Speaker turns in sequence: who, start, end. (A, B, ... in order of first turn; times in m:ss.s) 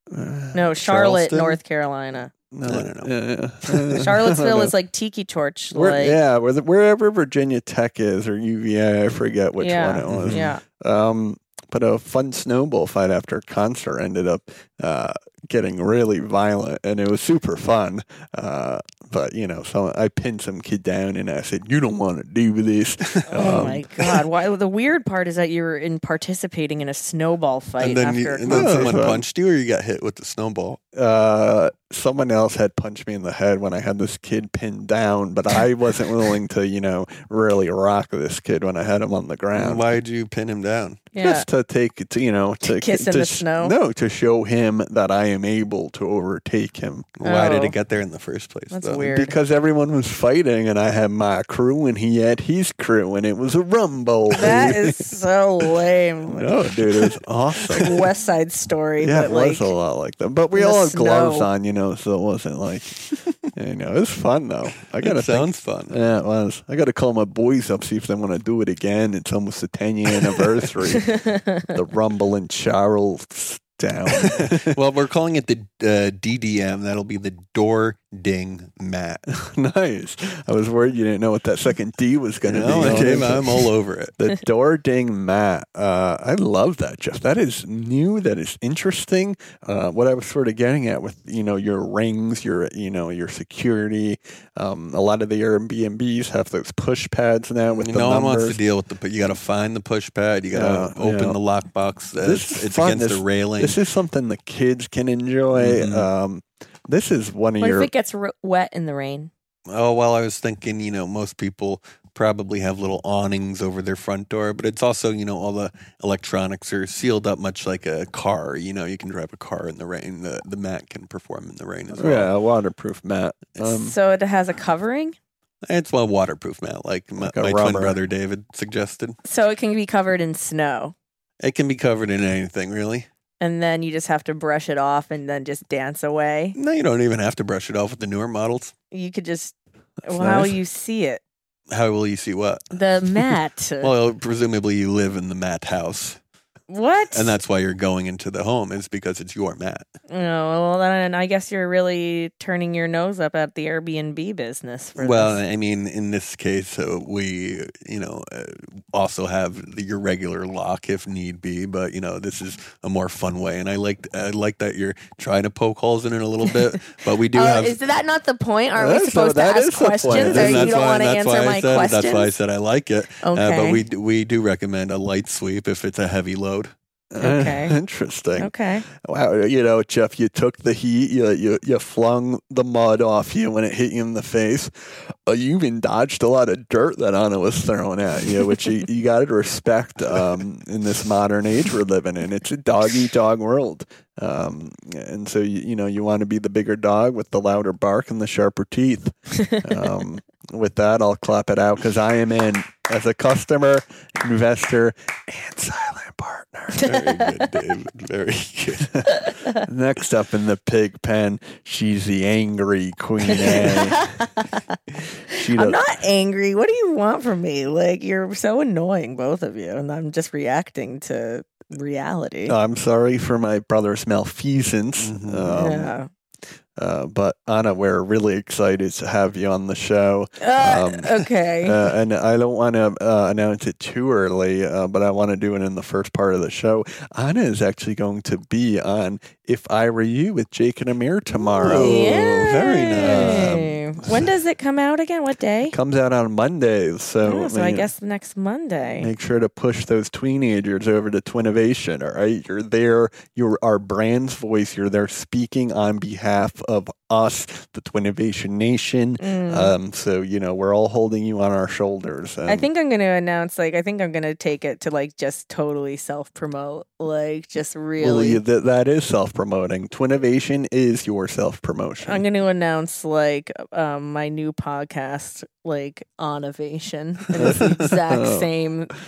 0:00.1-0:01.4 A
0:00.5-0:02.3 B
0:00.9-0:01.5 C
0:02.5-0:04.7 A
0:02.6-0:03.1 C
0:03.9-0:06.2 B
0:05.7-0:23.9 A
0:09.6-0:10.6 B
0:10.1-0:10.5 C
0:23.2-0:23.8 C
0:23.3-0:28.8 B
0:27.8-0:30.8 C
0:28.4-0:29.2 A
0:30.9-0:39.8 A
0:39.6-0:41.1 C
0:41.1-0:41.4 B
0:41.2-0:47.1 A
0:42.6-0:43.8 B
0:47.2-0:49.1 C
0:47.2-0:47.7 B
0:48.7-0:49.3 B
0:49.0-0:55.0 A
0:54.4-0:56.6 B
0:56.3-0:58.0 A
0:57.7-0:59.7 B
0:59.0-1:11.1 A
1:00.6-1:01.5 B
1:05.0-1:06.0 C
1:11.0-1:11.7 B
1:11.7-1:14.8 A
1:14.1-1:19.2 C
1:19.3-1:38.6 A
1:22.4-1:24.2 C
1:37.8-1:43.8 C
1:40.5-1:41.4 A
1:42.2-1:47.9 A
1:45.5-1:46.1 C
1:47.6-1:49.3 B
1:49.7-2:02.3 C
2:01.9-2:03.9 A
2:03.6-2:05.2 B
2:05.6-2:09.2 C
2:07.2-2:08.0 A
2:09.2-2:10.9 B
2:11.4-2:13.1 C
2:13.4-2:16.6 B
2:16.5-2:18.7 C
2:18.9-2:19.5 B
2:20.0-2:21.2 B
2:20.1-2:20.5 A
2:21.7-2:22.6 C
2:22.7-2:23.9 B
2:23.8-2:26.2 C
2:26.7-2:27.3 B
2:27.1-2:29.8 C
2:30.1-2:35.4 B
2:35.0-2:47.8 C
2:47.3-2:52.3 B
2:48.8-2:50.7 A
2:50.1-2:56.7 C
2:53.2-2:53.8 B
2:57.1-3:26.8 A
2:57.2-2:57.8 B
2:58.4-2:58.8 B
3:26.7-3:27.2 B
3:26.8-3:29.1 C
3:28.9-3:34.0 A
3:29.3-3:29.6 B
3:33.3-3:34.6 B
3:35.3-3:35.8 A
3:35.3-3:42.5 B
3:42.5-3:45.9 A
3:45.0-3:45.6 C
3:45.5-3:46.1 B
3:46.8-4:02.2 A
3:50.4-3:51.8 B
4:01.6-4:04.1 C
4:01.6-4:05.7 B
4:03.0-4:03.6 A
4:05.7-4:07.9 A
4:07.2-4:09.1 B
4:09.0-4:22.7 A
4:19.2-4:19.7 B
4:22.5-4:28.4 B
4:28.0-4:32.2 A
4:32.0-4:38.9 B
4:37.3-4:38.5 A
4:37.4-4:37.9 C